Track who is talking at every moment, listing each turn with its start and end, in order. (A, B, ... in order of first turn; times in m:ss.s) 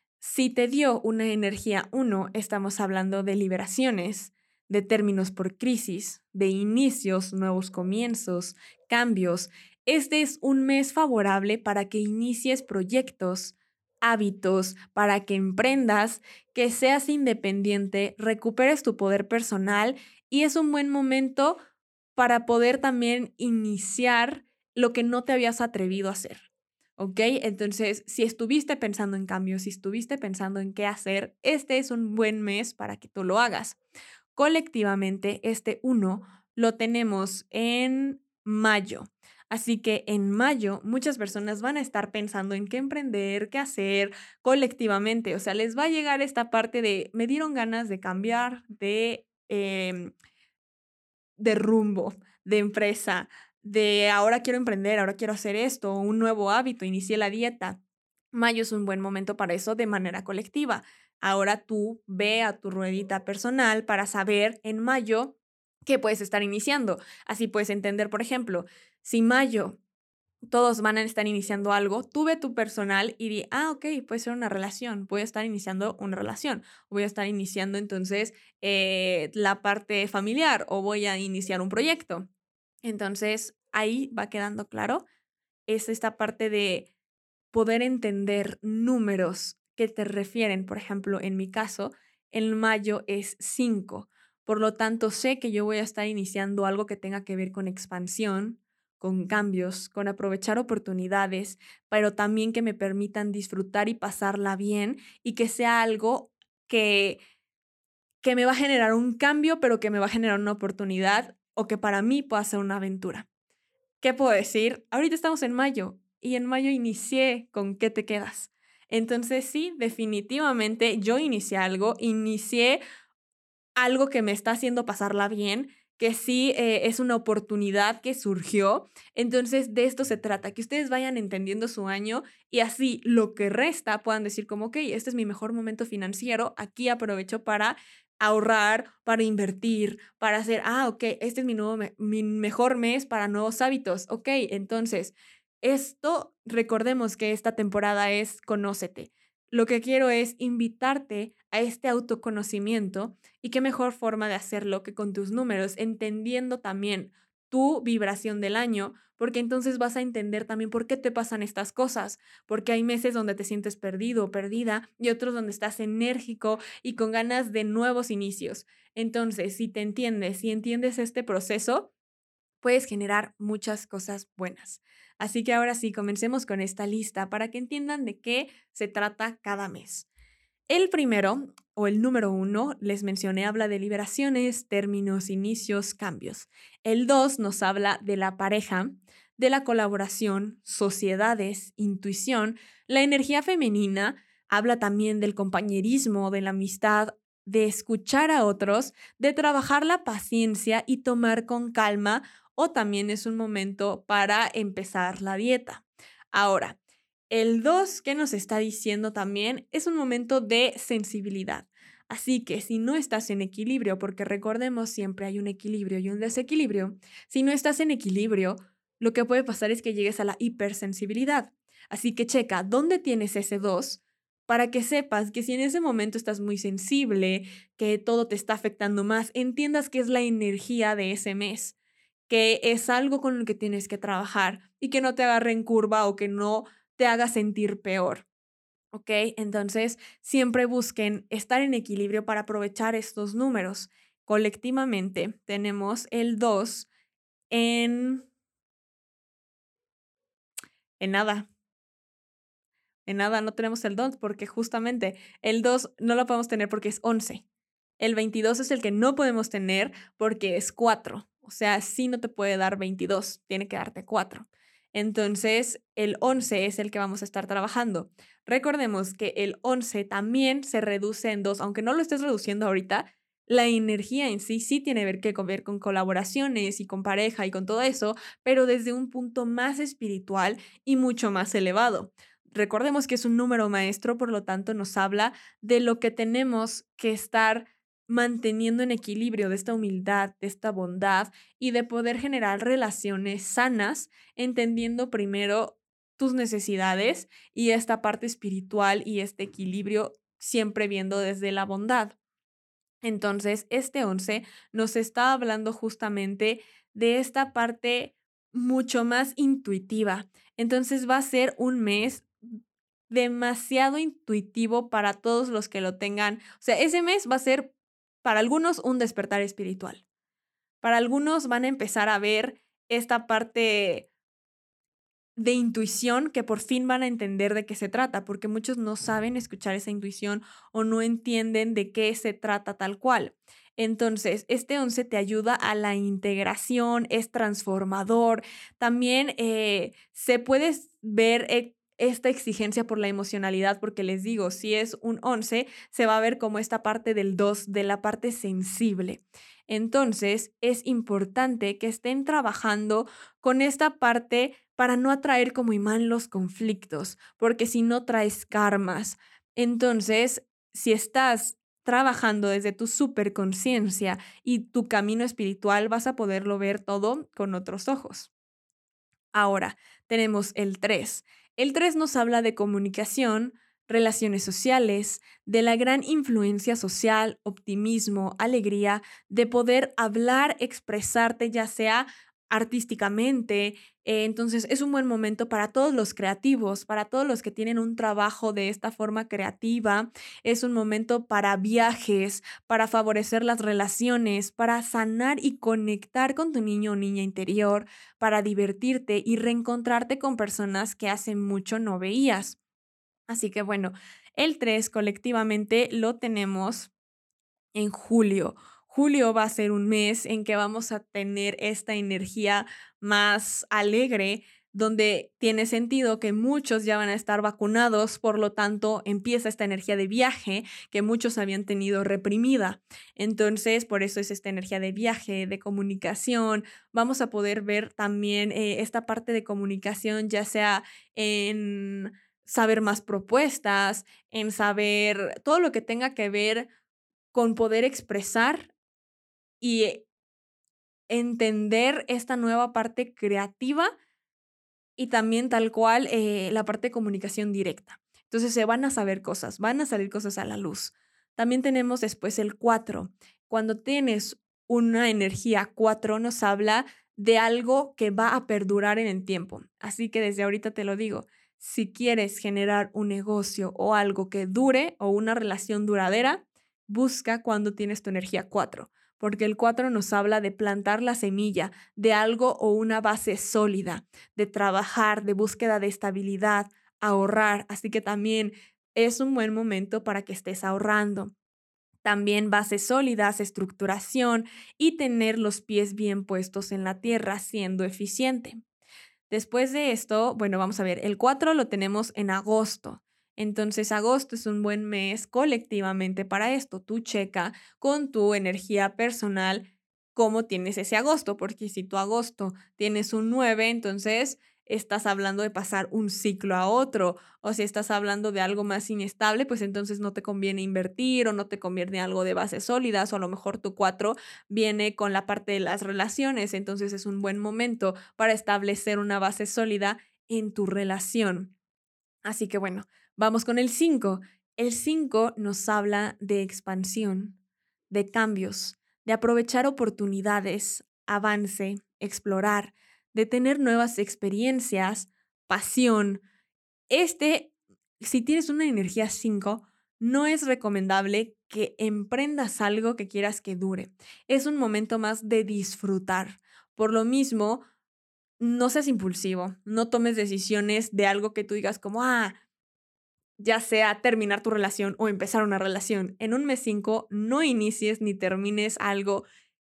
0:00.2-0:21.6 A
0:22.2-0:26.4 A
0:27.0-0:33.8 A
0:34.4-0:50.1 A
0:51.4-0:57.8 A
0:58.3-1:09.8 A
1:10.5-1:22.3 A
1:22.8-1:25.0 A
1:25.7-1:26.9 A
1:27.5-1:47.2 A
1:48.2-1:53.3 A
1:54.0-2:02.8 A
2:03.8-2:51.9 A
2:52.6-3:00.1 A
3:00.7-3:26.8 A
3:27.3-3:51.8 A
3:52.3-3:58.2 A
3:58.9-4:06.9 A
4:07.5-4:08.3 A
4:11.0-4:11.5 A
4:13.0-4:17.4 A
4:18.0-5:02.2 A
5:03.0-5:12.3 A
5:13.1-5:17.7 A
5:18.2-5:20.0 A
5:20.8-5:24.1 A
5:25.4-6:08.3 A
6:09.3-6:42.6 A
6:43.3-6:46.9 A
6:47.8-7:16.7 A
7:17.3-7:18.7 A
7:19.6-7:20.1 A
7:21.1-7:23.9 A
7:25.0-8:01.3 A
8:02.0-8:08.6 A
8:09.3-8:41.5 A
8:42.2-8:47.4 A
8:47.9-8:56.2 A
8:56.9-9:07.6 A
9:08.4-9:12.4 A
9:13.4-9:19.2 A